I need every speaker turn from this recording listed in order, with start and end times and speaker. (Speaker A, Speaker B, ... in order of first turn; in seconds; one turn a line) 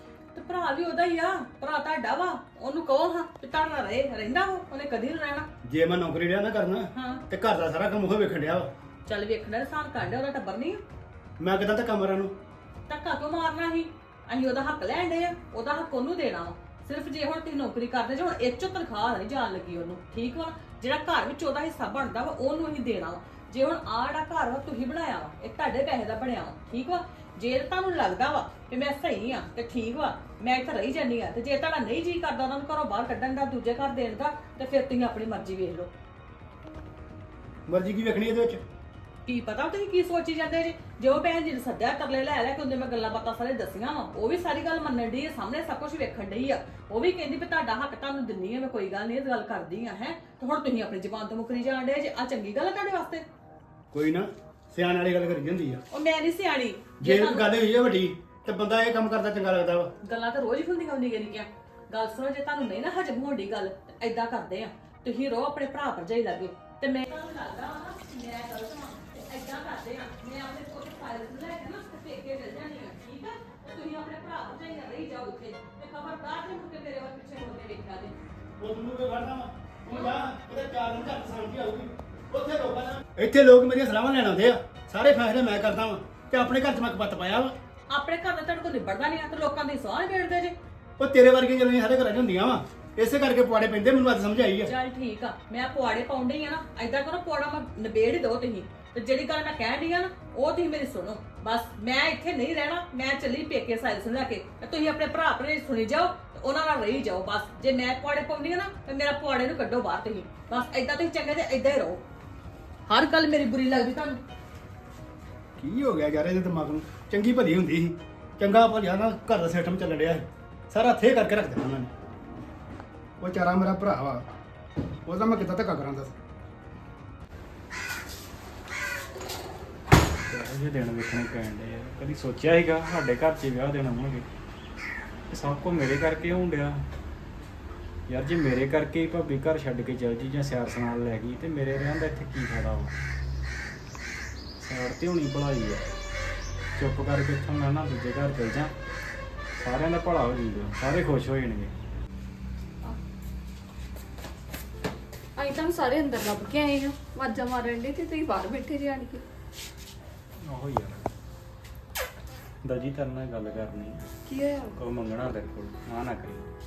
Speaker A: 0.3-5.5
Speaker B: 5.6-8.7
Speaker A: 6.9-7.2
Speaker A: 9.1-10.8
Speaker B: 11.4-12.3
Speaker A: 12.9-35.9
Speaker B: 37.7-38.6
Speaker A: 39.2-53.2
Speaker B: 53.9-55.8
Speaker A: 55.9-57.5
Speaker B: 57.0-59.9
Speaker A: 60.0-78.1
Speaker B: 78.6-87.5
Speaker A: 87.9-90.5
Speaker B: 91.0-94.7
Speaker A: 94.6-112.0
Speaker A: 112.9-114.2
Speaker B: 115.6-121.9
Speaker B: 123.2-124.2
Speaker B: 125.0-126.1
Speaker C: 130.3-134.2
Speaker C: 135.3-136.8
Speaker C: 138.1-142.9
Speaker C: 144.6-145.8
Speaker C: 146.8-148.7
Speaker C: 149.6-151.7
Speaker D: 155.3-159.2
Speaker C: 160.4-161.1
Speaker C: 162.6-164.0
Speaker D: 164.2-164.8
Speaker C: 164.8-166.4